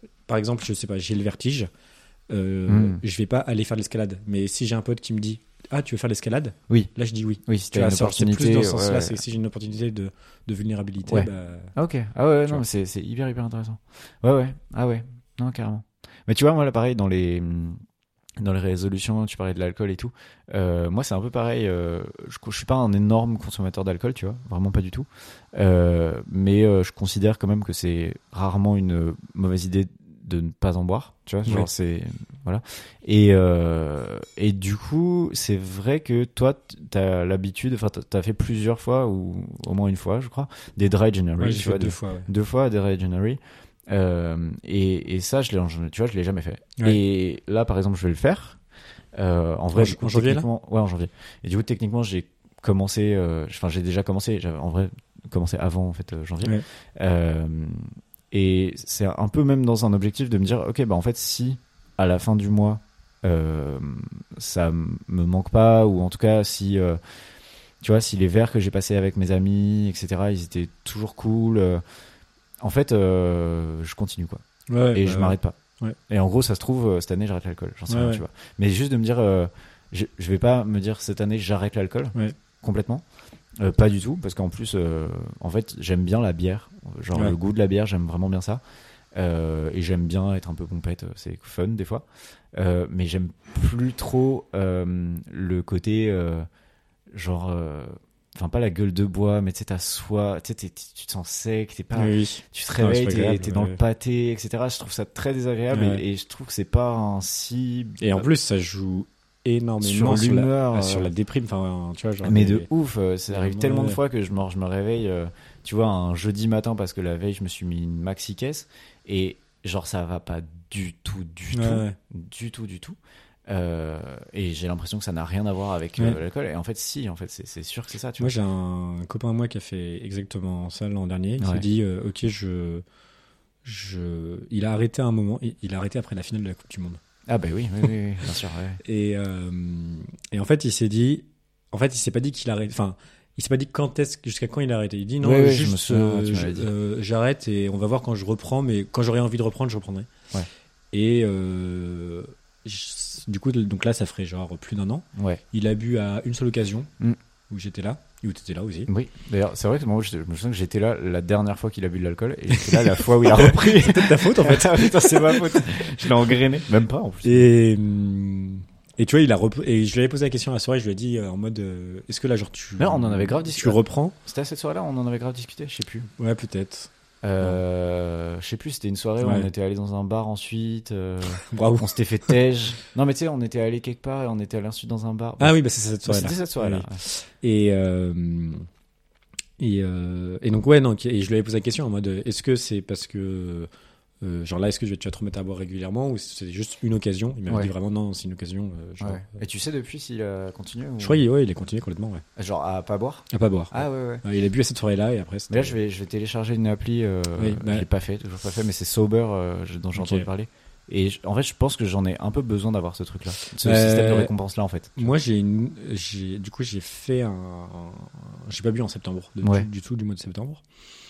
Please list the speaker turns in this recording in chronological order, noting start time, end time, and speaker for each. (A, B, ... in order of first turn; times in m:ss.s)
0:00.3-0:01.7 A
0:02.3-0:11.7 A
0:02.7-0:03.0 B
0:07.5-0:09.2 B
0:11.1-0:17.8 B
0:18.4-0:48.6 B
0:41.4-0:42.3 A
0:49.1-1:07.0 B
0:49.7-0:50.4 A
1:07.8-1:11.8 B
1:12.6-1:15.6 B
1:14.7-1:16.0 A
1:16.1-1:23.0 B
1:17.9-1:18.2 A
1:23.6-1:28.6 B
1:29.1-1:36.4 B
1:37.1-1:48.3 B
1:41.9-1:43.8 A
1:45.7-1:46.0 A
1:48.0-1:52.7 A
1:49.8-1:51.1 B
1:52.2-2:03.0 B
1:53.3-1:54.0 A
2:01.5-2:02.0 A
2:03.5-2:08.3 B
2:08.2-2:12.8 A
2:11.4-2:11.6 B
2:13.6-2:17.0 A
2:17.3-2:18.8 B
2:18.8-2:30.1 A
2:25.2-2:26.7 B
2:30.9-2:36.9 A
2:35.2-2:35.4 B
2:37.5-2:38.9 A
2:38.9-2:47.5 B
2:42.5-2:46.3 A
2:47.2-2:54.2 A
2:52.8-2:56.1 B
2:56.2-2:57.6 A
2:57.2-3:07.0 B
2:59.2-2:59.5 A
3:01.4-3:02.4 A
3:05.4-3:08.6 A
3:09.6-3:13.7 A
3:14.2-3:19.4 A
3:19.0-3:21.2 B
3:21.0-3:22.2 A
3:22.4-3:24.2 B
3:23.3-3:25.8 A
3:25.5-3:35.1 B
3:27.4-3:27.9 A
3:29.9-3:30.3 A
3:33.4-3:34.3 A
3:35.0-3:40.6 A
3:39.4-3:39.7 B